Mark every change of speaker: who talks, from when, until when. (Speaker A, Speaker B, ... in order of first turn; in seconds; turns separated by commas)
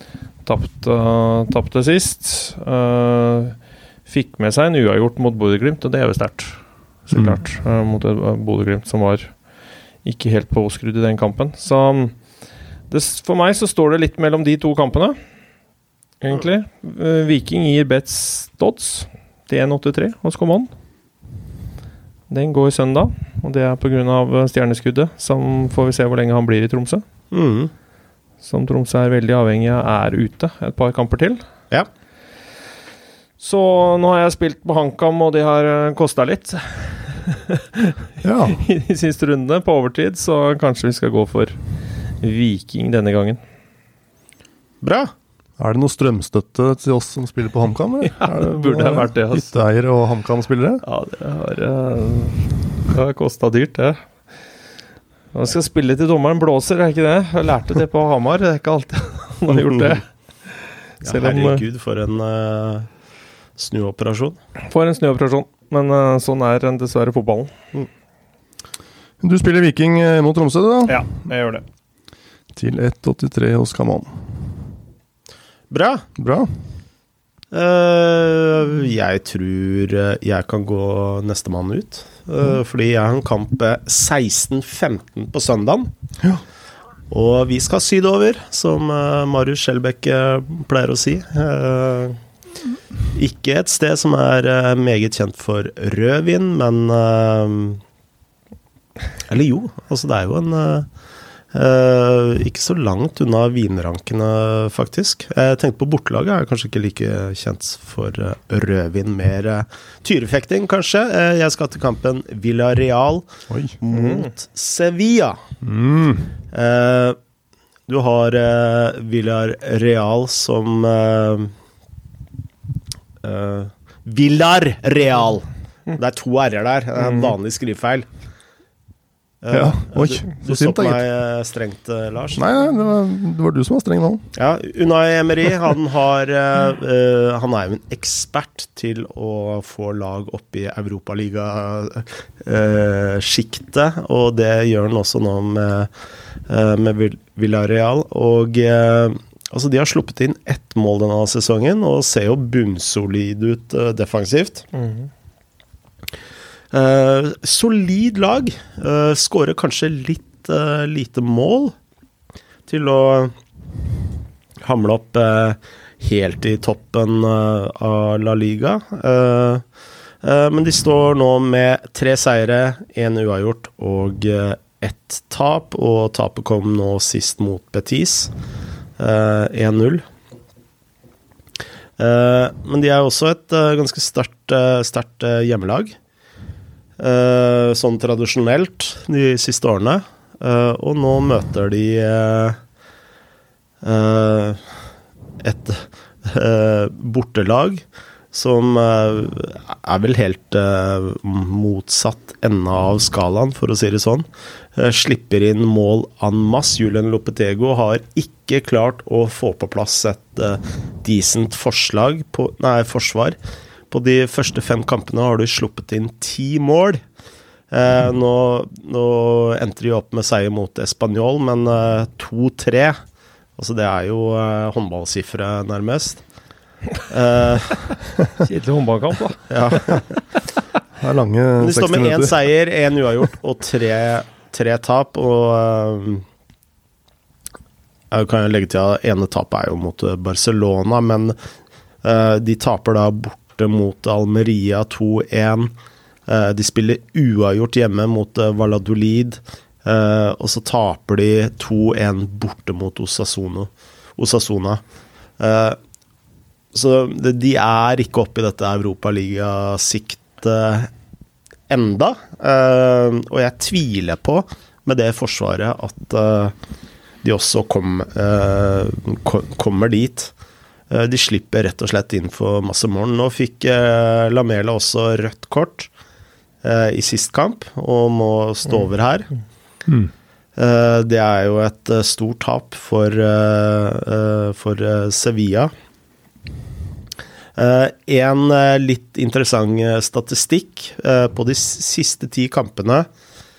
Speaker A: 0.4-9.3, Speaker B: 7.1-7.4, Speaker A: 10.0-12.2, Speaker A: 12.9-15.2, Speaker A: 16.2-20.7, Speaker A: 22.3-27.0, Speaker C: 27.3-27.7, Speaker A: 28.4-31.4, Speaker A: 33.4-41.6, Speaker B: 38.2-38.6, Speaker A: 42.2-43.4, Speaker C: 44.8-45.1, Speaker B: 45.6-50.8, Speaker A: 48.1-49.5, Speaker A: 50.8-54.0, Speaker A: 55.3-61.6, Speaker C: 61.0-62.9, Speaker C: 63.5-64.4, Speaker A: 64.7-67.5, Speaker B: 69.2-71.1, Speaker A: 70.9-71.6, Speaker B: 72.5-74.2, Speaker C: 75.7-76.0, Speaker B: 76.2-76.5, Speaker C: 77.5-85.9, Speaker C: 87.1-92.2, Speaker C: 93.1-97.8, Speaker C: 99.3-100.9, Speaker C: 101.5-113.3, Speaker B: 113.5-113.7, Speaker C: 113.8-115.4, Speaker A: 113.9-114.3, Speaker B: 115.6-116.3, Speaker C: 116.5-117.2, Speaker C: 117.9-121.5, Speaker C: 123.2-128.1, Speaker A: 127.0-127.3, Speaker C: 129.4-132.4, Speaker B: 129.5-131.0, Speaker B: 132.3-134.2, Speaker C: 134.3-145.9, Speaker C: 146.5-154.7, Speaker A: 154.7-155.1, Speaker C: 156.7-161.7, Speaker C: 162.7-163.3, Speaker C: 164.6-169.6, Speaker C: 170.2-178.3, Speaker C: 179.0-180.0, Speaker C: 182.0-185.9, Speaker C: 187.0-192.6, Speaker C: 193.8-194.7, Speaker C: 195.4-213.4, Speaker C: 213.9-217.0, Speaker C: 217.7-223.0, Speaker C: 223.6-226.2, Speaker C: 227.1-228.1, Speaker A: 228.4-230.0, Speaker C: 229.5-230.1, Speaker B: 231.0-232.3, Speaker C: 231.6-236.2, Speaker C: 238.1-241.3, Speaker C: 242.0-245.7, Speaker C: 246.3-254.8, Speaker C: 255.4-255.8, Speaker C: 256.7-260.9, Speaker C: 261.7-266.6, Speaker C: 267.2-270.3, Speaker C: 270.9-275.9, Speaker C: 276.6-279.3, Speaker C: 280.6-285.7, Speaker C: 287.6-293.1